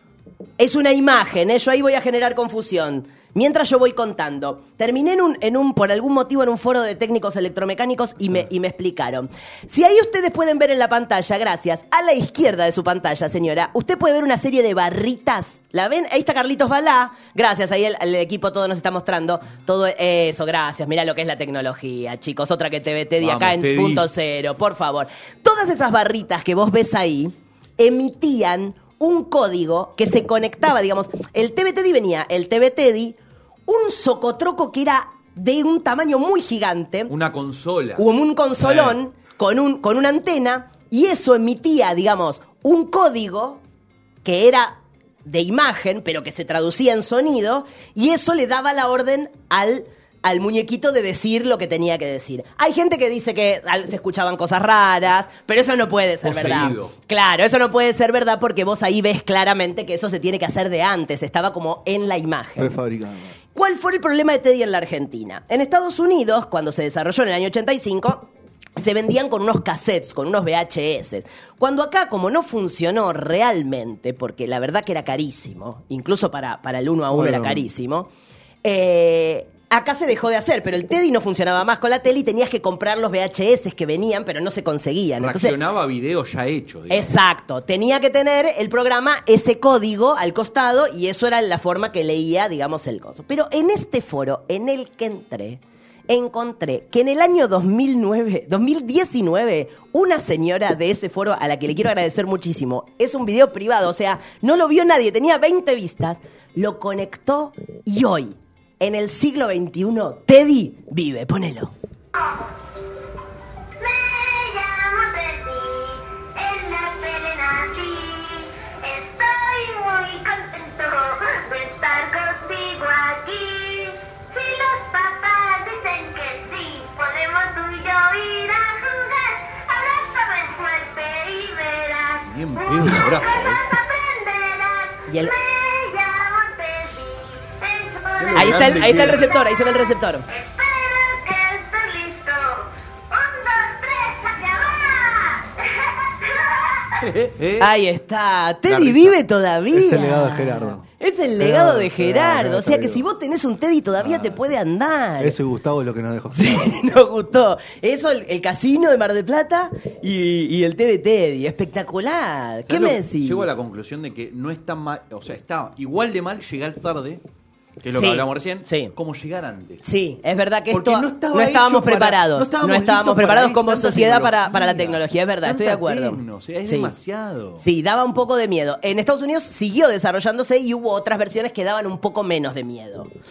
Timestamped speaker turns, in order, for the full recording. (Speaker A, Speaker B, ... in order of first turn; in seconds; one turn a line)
Speaker A: 0.6-37.1
Speaker B: 23.2-24.1
Speaker B: 37.1-38.0
Speaker A: 38.0-43.6
Speaker B: 38.6-39.0
Speaker A: 44.2-62.7
Speaker B: 56.2-56.9
Speaker C: 62.6-63.4
Speaker A: 63.5-78.1
Speaker C: 77.1-77.7
Speaker A: 78.6-85.5
Speaker B: 85.2-87.1
Speaker A: 86.9-111.7
Speaker D: 112.2-112.5
Speaker D: 113.8-139.7
Speaker B: 132.2-133.6
Speaker A: 135.1-135.3
Speaker B: 138.2-139.3
Speaker A: 138.3-140.3
Speaker D: 140.3-147.0
Speaker B: 147.0-147.7
Speaker A: 147.6-155.3
Speaker B: 148.7-149.2
Speaker C: 149.7-150.8
Speaker C: 151.4-153.1
Speaker C: 155.2-156.8
Speaker A: 156.3-163.5
Speaker B: 162.7-167.2
Speaker B: 167.8-169.8
Speaker A: 167.9-168.9
Speaker A: 169.8-176.9
Speaker B: 170.7-177.7
Speaker A: 177.6-183.1